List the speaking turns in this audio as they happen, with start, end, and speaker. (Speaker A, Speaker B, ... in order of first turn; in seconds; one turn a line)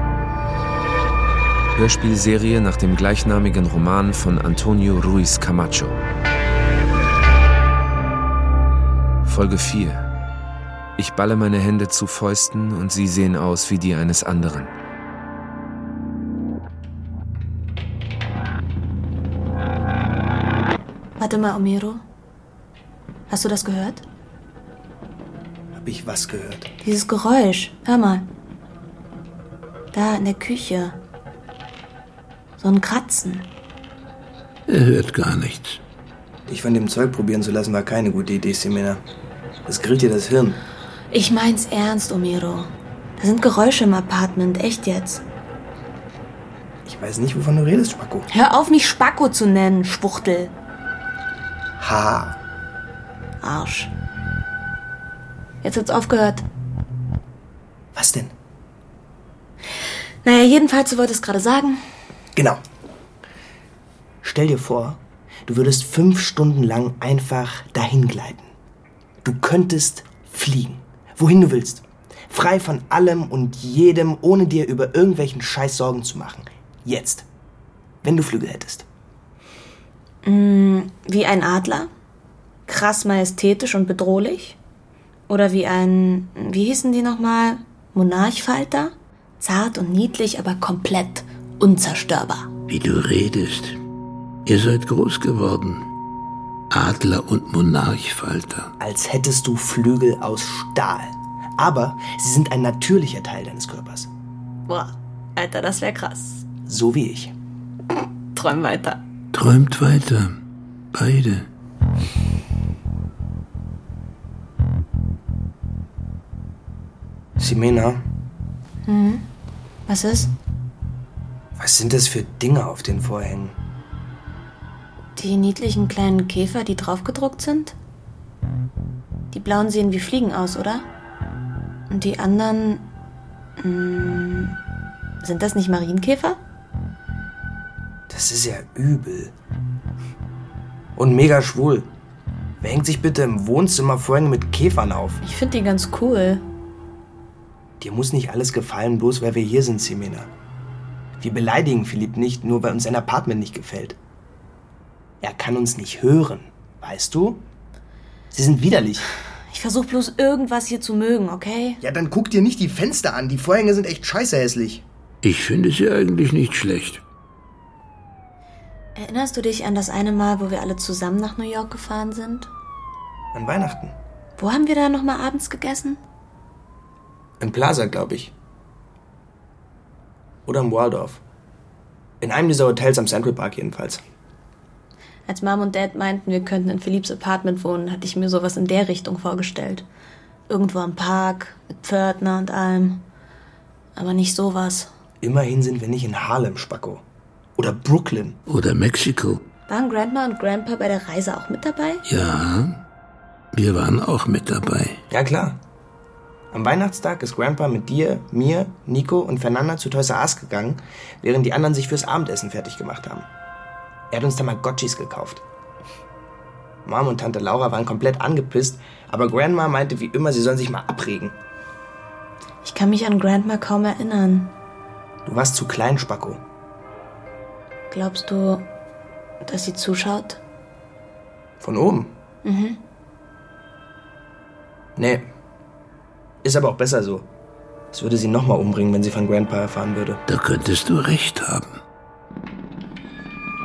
Speaker A: 1.8-6.0
Speaker A: 9.2-10.1
Speaker A: 11.0-14.7
Speaker B: 21.2-22.0
Speaker B: 23.3-24.0
Speaker C: 25.7-26.7
Speaker B: 26.8-28.3
Speaker B: 29.9-31.0
Speaker B: 32.6-33.5
Speaker D: 34.7-35.8
Speaker C: 36.5-39.0
Speaker C: 39.7-40.6
Speaker B: 41.1-45.2
Speaker C: 46.9-48.3
Speaker B: 48.3-50.5
Speaker C: 51.8-52.4
Speaker B: 53.4-53.9
Speaker B: 55.6-56.5
Speaker C: 57.9-58.3
Speaker B: 60.2-61.8
Speaker C: 62.4-62.6
Speaker C: 64.2-68.5
Speaker C: 69.2-77.2
Speaker C: 78.0-78.8
Speaker B: 80.2-81.9
Speaker B: 82.7-84.6
Speaker B: 85.3-92.5
Speaker D: 92.7-93.8
Speaker D: 94.5-95.9
Speaker D: 96.7-98.7
Speaker C: 98.8-104.1
Speaker B: 104.7-106.5
Speaker C: 106.7-107.3
Speaker B: 108.3-109.0
Speaker D: 109.3-110.4
Speaker D: 110.9-111.5
Speaker C: 117.4-118.0
Speaker B: 118.9-119.3
Speaker B: 119.9-120.3
Speaker C: 121.6-123.5
Speaker B: 125.2-127.8
Speaker B: 129.3-130.8
Speaker B: 131.9-132.9
Speaker B: 133.6-134.6
Speaker B: 135.2-136.4
Speaker C: 138.1-139.3
Speaker C: 141.0-141.9
Speaker C: 142.6-145.2
Speaker B: 145.2-146.4
Speaker C: 147.8-150.3
Speaker C: 151.2-154.0
Speaker C: 155.2-157.4
Speaker C: 158.3-159.1
Speaker B: 159.5-161.8
Speaker C: 161.8-164.8
Speaker D: 165.2-167.0
Speaker B: 169.0-172.5
Speaker C: 173.3-173.9
Speaker B: 174.4-176.0
Speaker C: 177.4-178.3
Speaker C: 180.5-181.2
Speaker C: 182.2-184.0
Speaker B: 185.3-189.8
Speaker B: 190.5-193.0
Speaker B: 194.0-194.9
Speaker C: 195.2-197.0
Speaker C: 197.6-198.4
Speaker D: 198.5-199.4
Speaker B: 199.7-202.0
Speaker D: 202.1-202.8
Speaker D: 203.5-205.0
Speaker C: 205.1-205.6
Speaker C: 206.5-213.3
Speaker C: 214.1-215.4
Speaker C: 216.8-221.3
Speaker B: 222.6-224.5
Speaker C: 225.2-226.4
Speaker B: 227.9-228.7
Speaker B: 229.4-230.4
Speaker C: 231.6-232.1
Speaker B: 232.4-232.8
Speaker C: 235.0-235.3
Speaker C: 236.4-237.3
Speaker C: 237.9-240.2
Speaker D: 240.3-241.8